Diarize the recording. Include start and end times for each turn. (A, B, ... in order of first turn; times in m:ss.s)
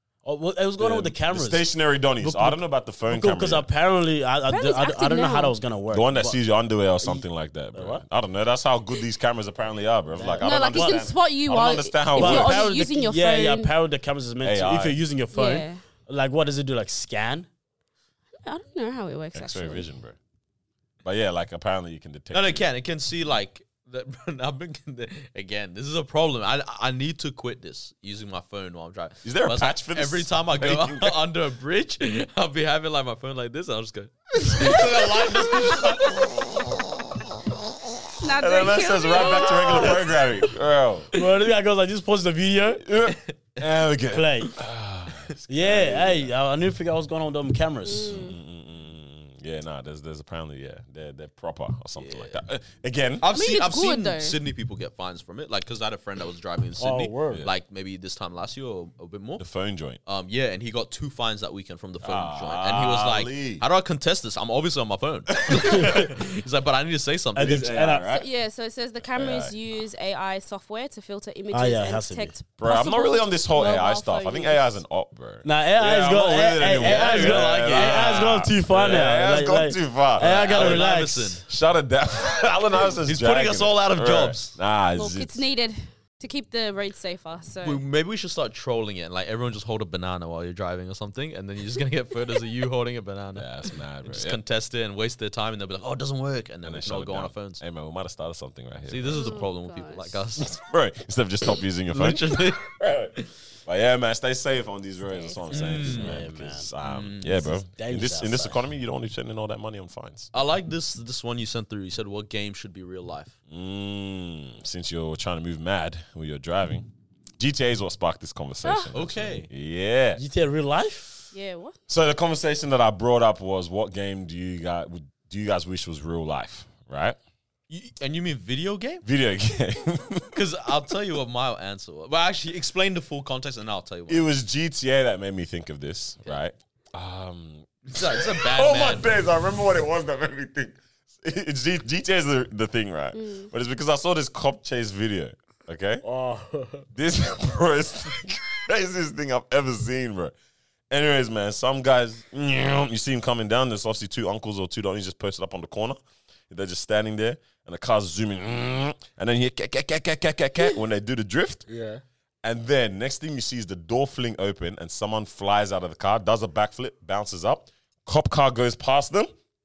0:00.2-0:01.6 A
0:00.8-0:03.7 B
0:02.2-0:06.4 A
0:04.5-0:05.6 C
0:05.9-0:12.7 B
0:07.8-0:08.0 A
0:10.1-0:10.5 A
0:10.4-0:13.7 C
0:12.2-0:17.5 A
0:14.4-0:15.0 B
0:15.3-0:15.8 C
0:18.4-0:19.9 C
0:19.3-0:20.2 B
0:21.0-0:22.7 B
0:22.3-0:36.3 D
0:29.2-0:31.2 B
0:34.4-0:41.1 B
0:38.2-0:40.2 C
0:41.1-0:42.8 A
0:42.8-0:46.3 B
0:44.1-0:44.6 A
0:45.5-0:48.2 A
0:47.8-0:48.4 C
0:48.1-0:53.3 B
0:52.0-0:52.4 D
0:53.2-0:59.4 D
0:53.3-0:54.4 C
0:56.8-0:57.5 A
0:59.4-1:00.0 B
1:00.1-1:07.7 D
1:02.0-1:03.6 B
1:05.5-1:06.2 B
1:07.4-1:08.1 A
1:07.4-1:08.3 B
1:08.1-1:14.8 C
1:09.2-1:09.6 B
1:11.5-1:12.4 A
1:12.6-1:20.9 B
1:15.4-1:21.4 A
1:16.8-1:19.1 D
1:20.2-1:21.5 D
1:21.5-1:25.5 B
1:23.1-1:24.5 D
1:25.0-1:27.8 C
1:27.6-1:33.5 D
1:33.4-1:34.4 B
1:34.0-1:37.6 D
1:36.6-1:39.5 B
1:38.9-1:40.6 D
1:39.1-1:40.2 C
1:40.4-1:50.3 B
1:41.9-1:43.3 D
1:45.0-1:45.7 C
1:45.5-1:46.2 D
1:45.8-1:46.7 A
1:46.8-1:47.5 D
1:47.5-1:48.6 A
1:50.3-1:53.4 D
1:53.5-2:00.2 B
1:58.6-1:58.9 C
1:58.9-1:59.5 D
2:00.2-2:01.1 A
2:01.3-2:01.8 C
2:01.9-2:07.2 B
2:07.7-2:09.0 D
2:09.0-2:10.4 B
2:10.3-2:14.3 D
2:14.1-2:26.0 B
2:17.9-2:19.1 D
2:23.2-2:23.5 C
2:26.0-2:26.9 A
2:27.0-2:30.3 B
2:30.9-2:41.6 B
2:41.7-2:42.0 A
2:42.4-2:49.3 B